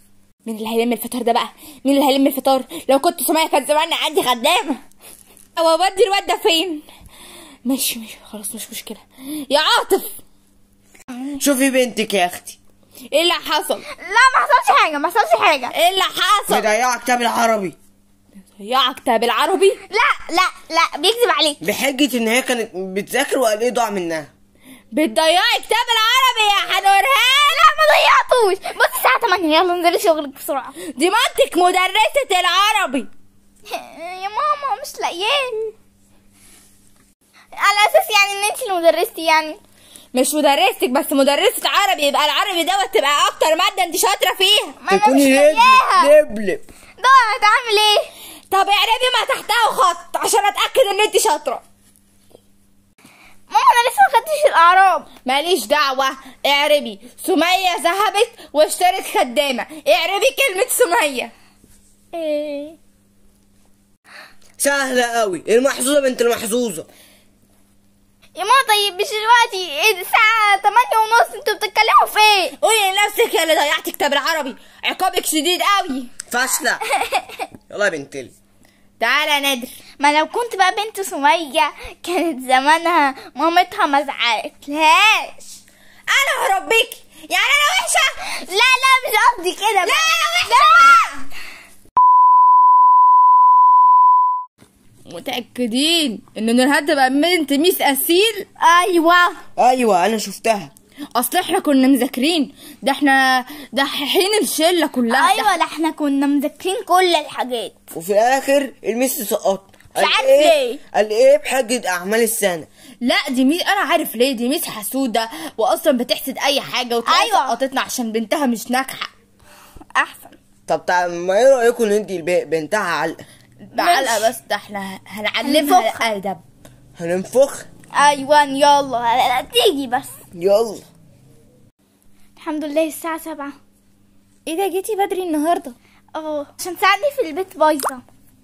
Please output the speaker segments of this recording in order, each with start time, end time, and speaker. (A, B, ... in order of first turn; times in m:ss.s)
0:00.4-0:04.8 A
0:05.6-0:06.8 A
0:07.6-0:10.2 A
0:11.4-0:12.6 B
0:13.1-0:13.8 A
0:14.0-0:15.7 C
0:15.7-0:16.7 A
0:16.5-0:17.8 B
0:18.6-0:19.8 A
0:19.9-0:21.6 C
0:21.6-0:24.3 B
0:24.9-0:27.5 A
0:27.2-0:30.8 C
0:30.8-0:33.1 A
0:33.7-0:35.7 C
0:37.6-0:39.6 C
0:40.1-0:44.8 A
0:44.8-0:46.1 C
0:44.9-0:46.6 B
0:47.0-0:48.1 C
0:48.5-0:51.6 A
0:53.5-0:55.1 C
0:55.2-1:01.3 A
1:02.1-1:02.8 C
1:04.6-1:06.9 B
1:08.4-1:12.6 C
1:12.6-1:16.1 A
1:16.3-1:16.8 B
1:17.0-1:17.4 C
1:17.7-1:18.3 B
1:19.0-1:19.8 A
1:20.0-1:25.6 C
1:26.1-1:28.1 A
1:28.2-1:31.1 C
1:29.8-1:31.2 A
1:35.1-1:38.4 A
1:38.6-1:39.4 C
1:39.6-1:40.7 B
1:41.1-1:45.5 A
1:45.1-1:47.8 C
1:47.9-1:52.7 B
1:49.9-1:50.8 C
1:53.0-1:59.1 A
1:57.1-1:57.6 C
1:59.9-2:00.4 C
2:00.7-2:03.2 B
2:03.7-2:06.4 A
2:03.8-2:04.3 C
2:05.4-2:06.0 C
2:07.0-2:07.6 B
2:07.9-2:10.1 C
2:10.3-2:10.8 B
2:12.4-2:13.6 C
2:14.4-2:15.8 A
2:16.1-2:18.0 C